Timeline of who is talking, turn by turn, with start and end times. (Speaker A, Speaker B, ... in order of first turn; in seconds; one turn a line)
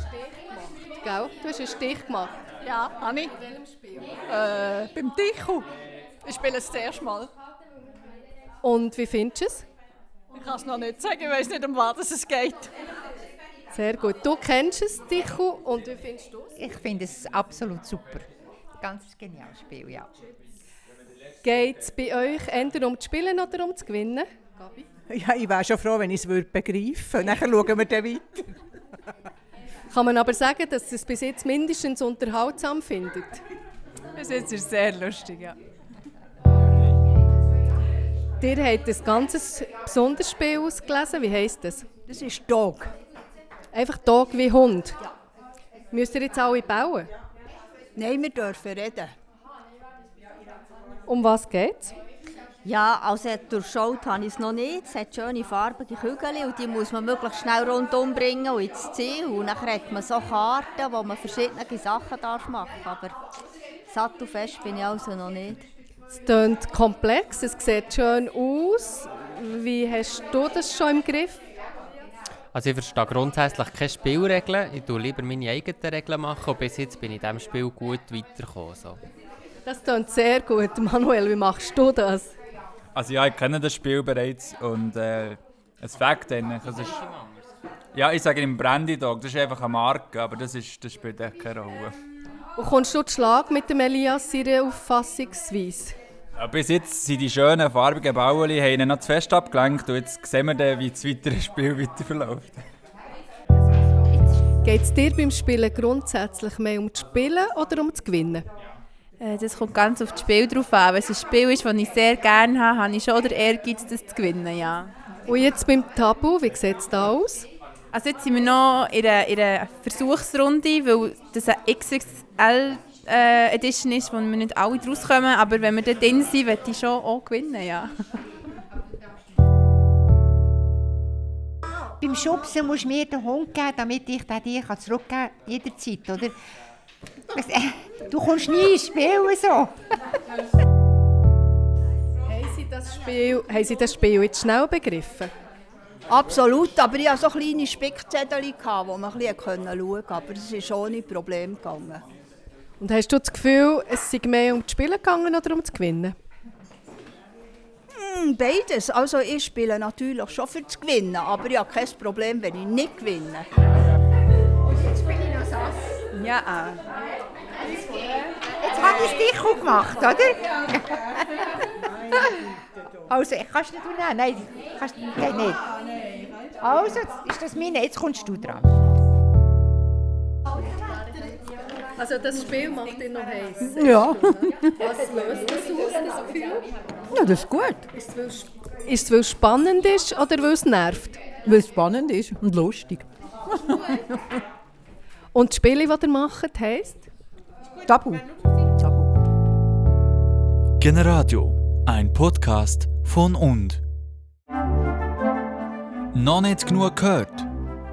Speaker A: 0.1-2.3
Speaker B: 2.6-3.3
Speaker A: 3.4-3.9
Speaker B: 4.3-5.2
Speaker C: 4.8-5.6
Speaker B: 6.2-7.3
Speaker A: 8.6-9.7
Speaker B: 10.3-12.7
Speaker C: 11.2-11.5
Speaker A: 13.7-16.5
Speaker D: 16.6-18.3
Speaker D: 18.8-20.1
Speaker A: 21.4-24.8
Speaker C: 25.1-28.4
Speaker A: 29.9-33.4
Speaker E: 34.2-35.5
Speaker A: 38.4-41.8
Speaker F: 42.1-42.9
Speaker A: 43.7-45.0
Speaker A: 45.9-47.1
Speaker F: 48.0-49.1
Speaker A: 51.1-51.9
Speaker G: 52.6-63.1
Speaker G: 63.9-65.7
Speaker A: 66.1-71.4
Speaker H: 72.5-79.0
Speaker A: 79.6-82.3
Speaker I: 82.9-86.9
Speaker I: 87.9-91.9
Speaker A: 92.6-95.9
Speaker I: 96.3-102.6
Speaker A: 104.6-108.4
Speaker E: 109.2-114.9
Speaker A: 115.3-117.5
Speaker E: 117.9-127.9
Speaker D: 132.0-136.3
Speaker D: 137.3-139.7
Speaker A: 142.3-145.3
Speaker F: 146.1-152.0
Speaker A: 152.8-156.1
Speaker F: 157.9-163.4
Speaker D: 168.6-171.4
Speaker D: 173.1-175.6
Speaker D: 176.6-178.7
Speaker A: 182.0-186.6
Speaker C: 183.8-184.3
Speaker C: 187.1-187.8
Speaker A: 188.0-191.2
Speaker C: 191.4-193.1
Speaker A: 195.3-197.1
Speaker C: 197.8-198.2
Speaker C: 198.8-199.1
Speaker J: 200.8-203.8
Speaker J: 206.1-207.5